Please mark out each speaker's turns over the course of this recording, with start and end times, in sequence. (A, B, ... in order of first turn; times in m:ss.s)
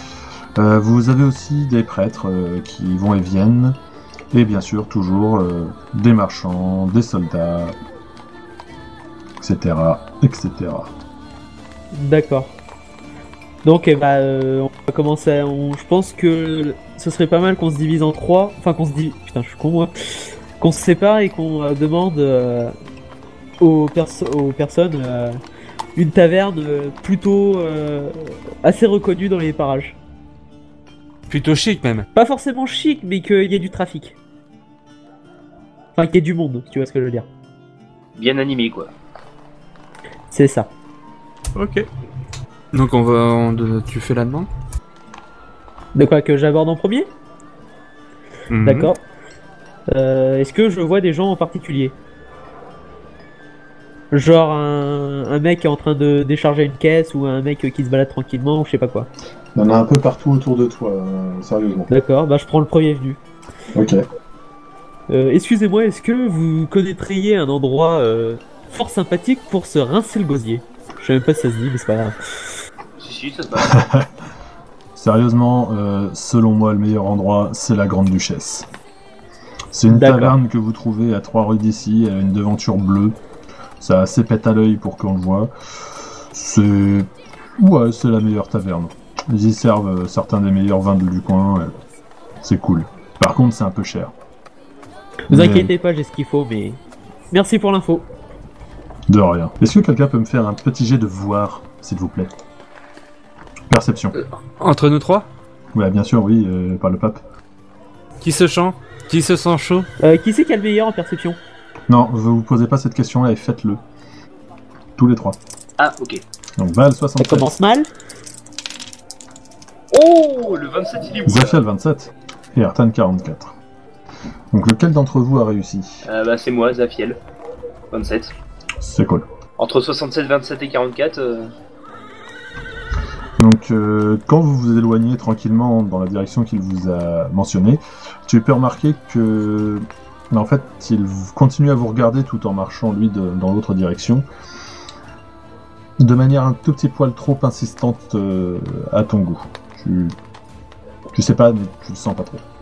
0:00.6-0:03.8 A
0:04.3-0:07.8 A
0:09.4-0:10.9 A
0:11.9-0:12.5 B
0:13.6-0:19.9 B
0:20.6-0:22.7 B
0:23.6-0:25.4 B
0:26.0-0:30.0 B
0:31.3-0:32.1 C
0:32.2-0:34.1 B
0:36.0-0:37.3 B
0:38.2-0:38.9 D
0:40.3-0:40.7 B
0:41.6-0:41.9 C
0:42.7-0:44.5 C
0:46.0-0:47.1 B
0:48.5-0:48.9 C
0:48.6-0:49.0 B
0:49.9-0:52.0 B
0:54.1-0:59.1 B
0:59.6-1:01.9 A
1:01.9-1:03.2 B
1:03.7-1:04.1 A
1:05.1-1:12.2 B
1:13.0-1:13.8 D
1:13.6-1:14.1 A
1:15.0-1:18.7 A
1:19.7-1:23.2 A
1:19.9-1:20.4 B
1:23.8-1:31.7 A
1:32.4-1:34.1 A
1:35.3-1:36.8 B
1:35.3-1:35.7 A
1:37.3-1:38.1 B
1:39.1-1:42.3 A
1:43.7-1:44.2 A
1:44.2-1:45.3 C
1:45.7-1:47.2 A
1:48.2-1:49.9 C
1:50.0-1:51.4 B
1:51.9-1:53.8 A
1:55.0-1:55.4 A
1:55.8-1:56.2 D
1:56.6-1:57.6 A
1:57.2-1:57.9 B
1:59.9-2:01.6 D
2:01.2-2:03.6 A
2:04.5-2:06.0 A
2:06.0-2:07.2 D
2:07.9-2:08.3 D
2:08.8-2:09.3 A
2:09.6-2:11.5 D
2:13.4-2:24.2 A
2:26.0-2:30.2 A
2:31.1-2:32.4 A